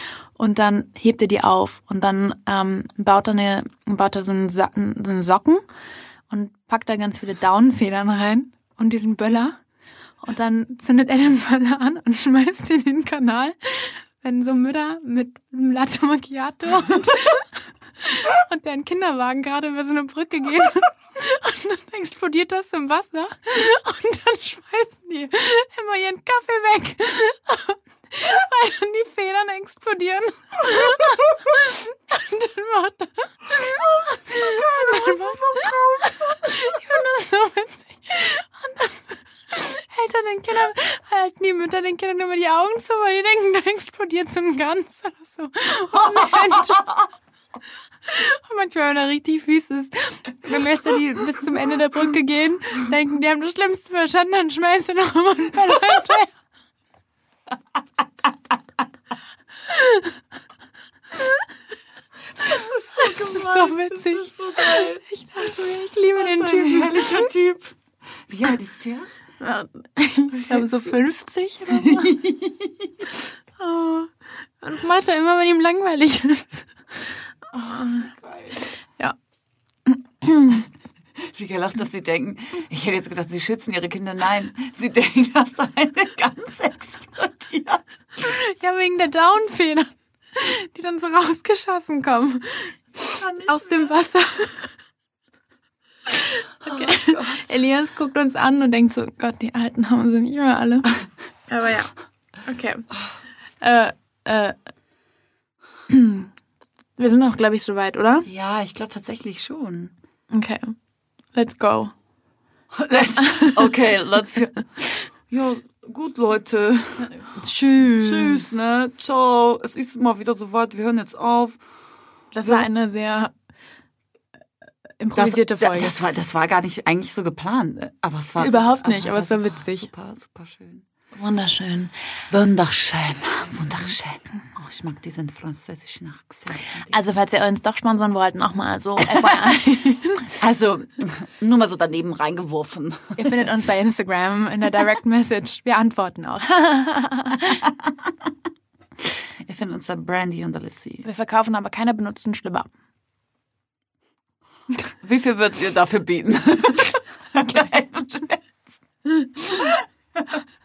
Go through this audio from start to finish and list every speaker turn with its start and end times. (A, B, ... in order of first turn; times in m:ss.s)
0:00.4-0:05.6 A
0:06.3-0:09.6 A
0:10.2-0:47.0 A
0:34.4-0:36.4 B
0:46.2-0:46.9 B
0:48.0-0:56.3 A
0:59.7-1:00.2 A
1:01.2-1:01.4 A
1:02.4-1:05.0 B
1:03.0-1:07.3 A
1:06.2-1:07.8 B
1:08.3-1:09.1 B
1:09.4-1:12.2 A
1:10.3-1:11.0 B
1:11.7-1:12.9 B
1:13.6-1:17.1 A
1:17.5-1:18.7 B
1:17.7-1:18.1 A
1:19.9-1:20.7 A
1:21.2-1:28.0 B
1:28.2-1:32.8 A
1:33.0-1:33.9 B
1:33.5-1:34.7 A
1:36.1-1:40.9 A
1:36.6-1:37.5 B
1:41.5-1:41.9 A
1:42.4-1:42.8 A
1:43.6-1:44.6 A
1:45.9-1:46.3 A
1:47.0-1:48.3 A
1:48.3-1:49.9 B
1:50.3-1:50.7 A
1:51.3-1:51.9 A
1:52.7-1:54.8 B
1:55.3-1:57.2 B
1:57.1-1:58.6 A
1:57.9-2:01.6 B
2:02.3-2:03.3 A
2:05.0-2:06.0 A
2:05.2-2:10.8 B
2:08.4-2:09.9 A
2:11.1-2:11.9 A
2:12.3-2:17.0 B
2:16.9-2:20.3 A
2:19.0-2:19.3 B
2:20.4-2:23.4 B
2:23.2-2:27.6 A
2:29.5-2:31.1 B
2:31.0-2:32.7 A
2:35.0-2:38.7 B
2:39.4-2:40.3 B